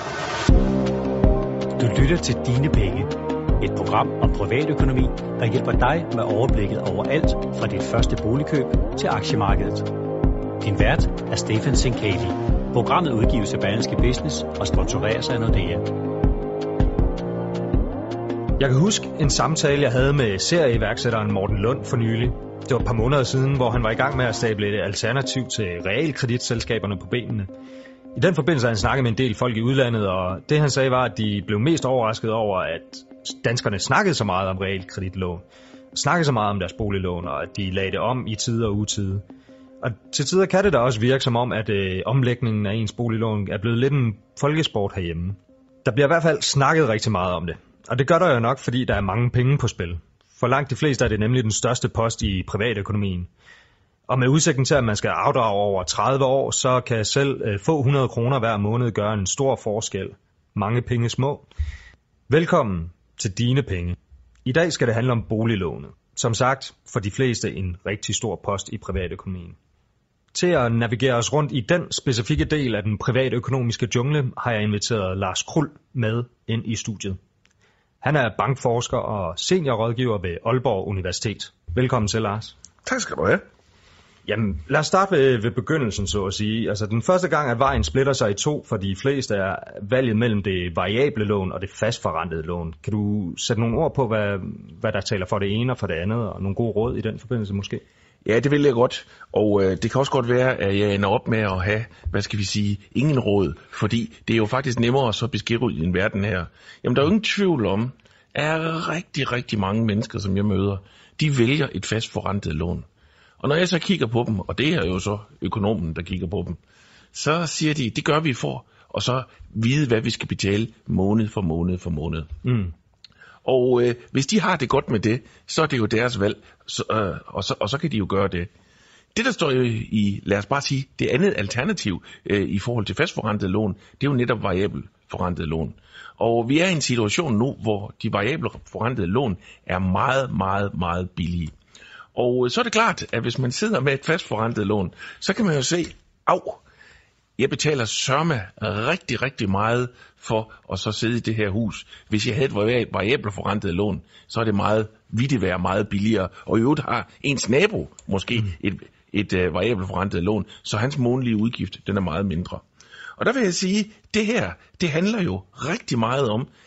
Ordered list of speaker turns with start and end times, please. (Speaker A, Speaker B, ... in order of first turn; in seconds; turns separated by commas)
Speaker A: 1.8-9.9, Speaker A: 10.6-15.9, Speaker B: 18.6-27.5, Speaker B: 28.1-39.2, Speaker B: 39.8-53.3, Speaker B: 54.1-61.5, Speaker B: 62.3-69.6, Speaker B: 70.3-77.2, Speaker B: 78.0-82.5, Speaker C: 82.8-83.4, Speaker B: 84.2-97.8, Speaker C: 98.2-112.8, Speaker C: 113.4-116.6, Speaker C: 117.1-122.3, Speaker B: 122.4-122.7, Speaker C: 123.4-128.5, Speaker C: 129.1-141.5, Speaker C: 142.1-146.6, Speaker C: 147.4-162.6, Speaker C: 163.2-166.5